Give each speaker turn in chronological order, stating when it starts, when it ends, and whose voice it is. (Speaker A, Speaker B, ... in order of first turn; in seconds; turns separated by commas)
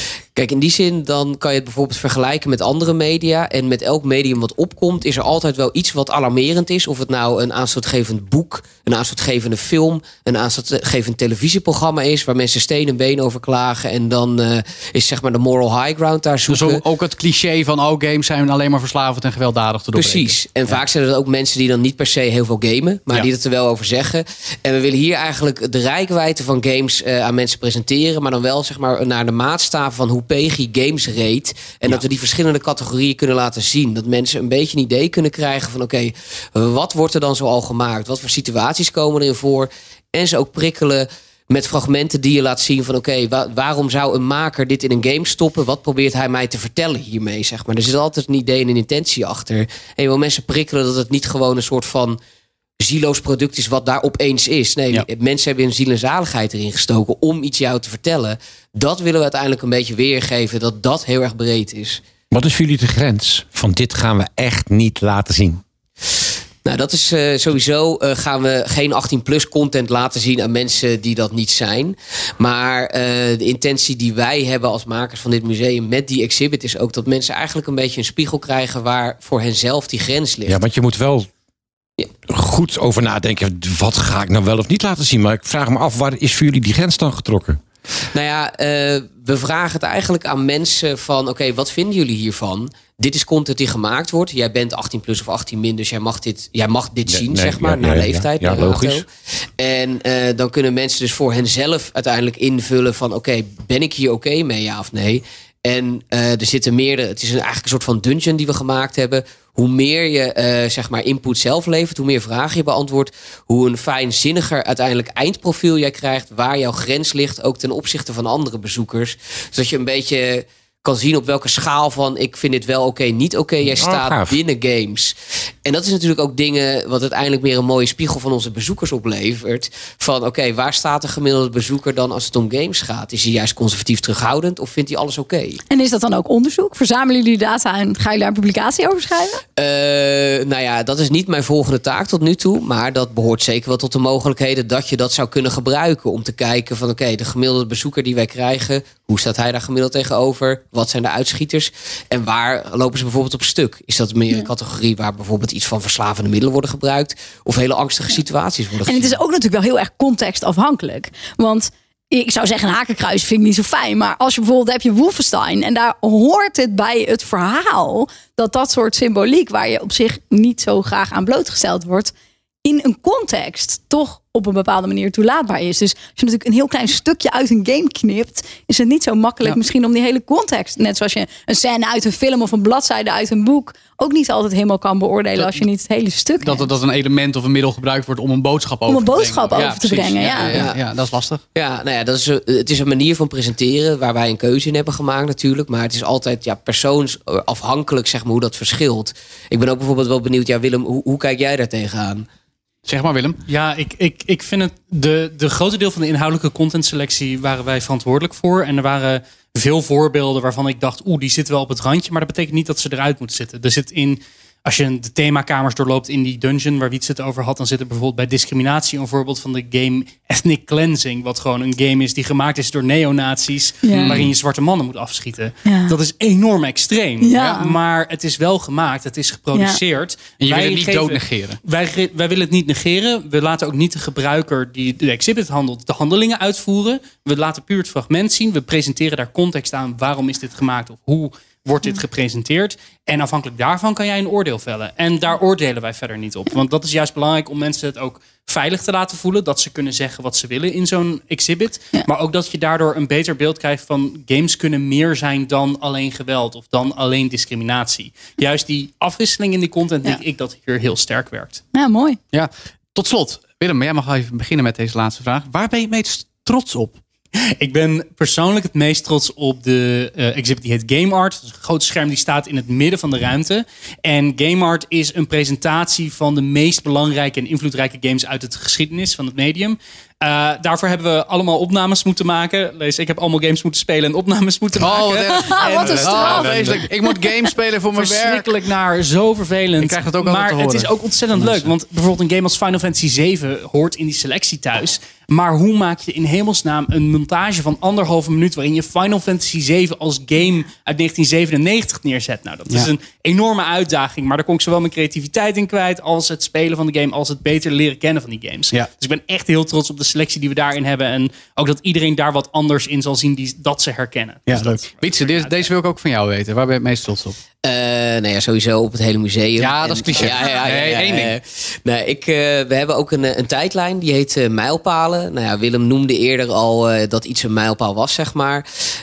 Speaker A: 0.3-16.8, Speaker B: 16.5-20.8, Speaker A: 19.9-52.2, Speaker A: 52.8-62.0, Speaker C: 62.3-65.6, Speaker A: 66.7-80.6, Speaker C: 80.5-81.3, Speaker C: 82.3-87.6, Speaker A: 88.1-99.1, Speaker C: 97.1-99.0, Speaker A: 99.6-125.1, Speaker C: 123.6-124.4, Speaker A: 125.7-135.6, Speaker D: 135.7-139.4, Speaker A: 139.6-159.2, Speaker D: 158.9-172.1, Speaker D: 172.6-186.7, Speaker B: 185.4-185.6, Speaker B: 186.4-191.4, Speaker D: 188.9-190.6, Speaker A: 190.4-190.8, Speaker A: 191.6-202.3, Speaker B: 202.9-203.4, Speaker E: 203.5-261.6, Speaker D: 223.8-224.2, Speaker B: 223.9-224.3, Speaker D: 225.7-225.9, Speaker D: 227.2-227.7, Speaker D: 229.5-229.8, Speaker B: 230.4-231.6, Speaker D: 261.7-262.2, Speaker B: 262.3-267.0, Speaker E: 267.6-286.9, Speaker B: 284.8-288.5, Speaker D: 285.4-287.3, Speaker E: 287.9-315.7, Speaker B: 289.8-291.7, Speaker B: 314.5-317.4, Speaker A: 317.6-328.6, Speaker B: 319.6-321.4